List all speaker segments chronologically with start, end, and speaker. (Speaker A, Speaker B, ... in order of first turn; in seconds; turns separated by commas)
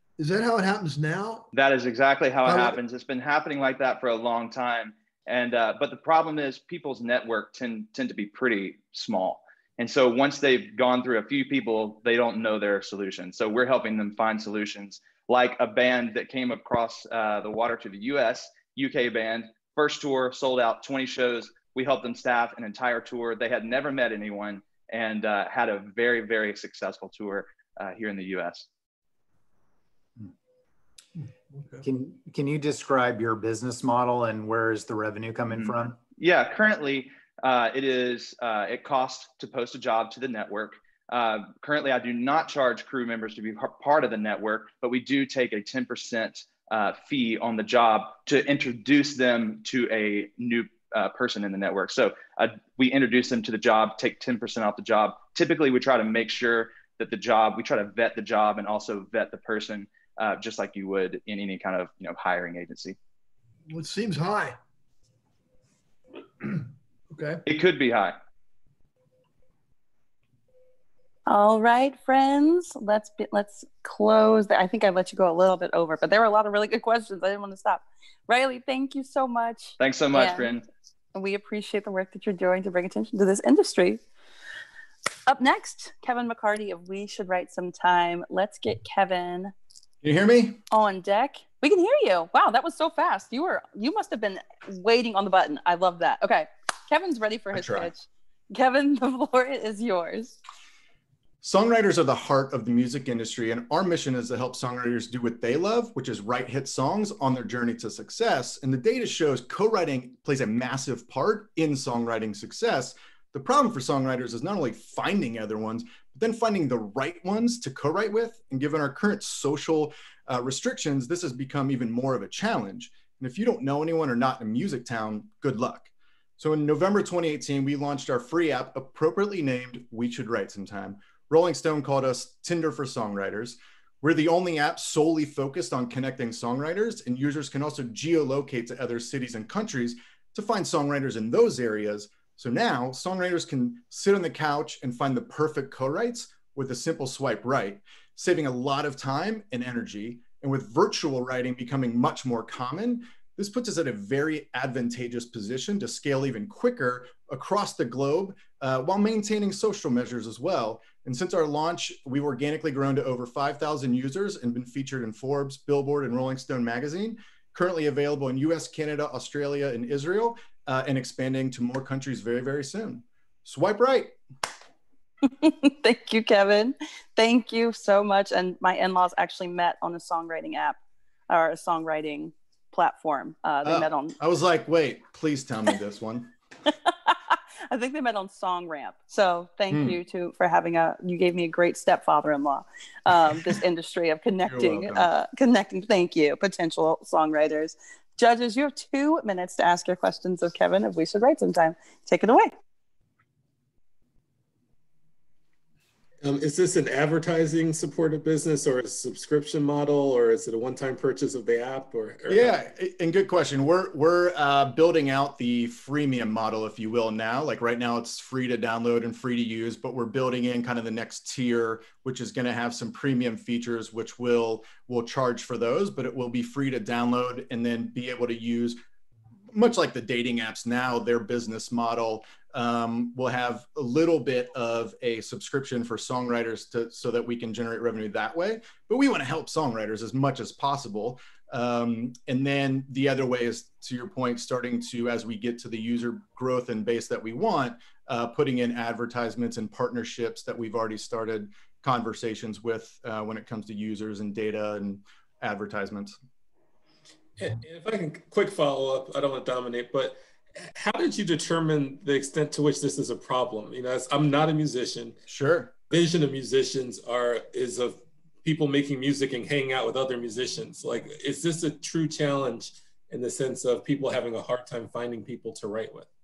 Speaker A: 0.2-1.5, Speaker B: 1.5-28.7, Speaker A: 2.4-2.8, Speaker A: 31.2-31.8, Speaker C: 31.8-36.0, Speaker B: 35.5-63.0, Speaker A: 63.7-64.6, Speaker A: 66.4-67.4, Speaker B: 67.5-68.2, Speaker D: 71.3-80.5, Speaker B: 79.8-80.6, Speaker D: 81.1-84.0, Speaker D: 85.3-89.5, Speaker E: 90.0-90.6, Speaker D: 90.7-100.4, Speaker E: 97.5-97.9, Speaker E: 101.4-174.2, Speaker D: 175.2-180.8, Speaker D: 181.3-184.1, Speaker E: 183.6-186.3, Speaker D: 186.9-202.5, Speaker E: 189.7-190.0, Speaker E: 194.4-195.1, Speaker F: 206.2-212.6, Speaker E: 212.3-228.8, Speaker E: 229.5-256.1, Speaker F: 257.4-265.2, Speaker E: 265.3-265.7, Speaker F: 265.9-276.1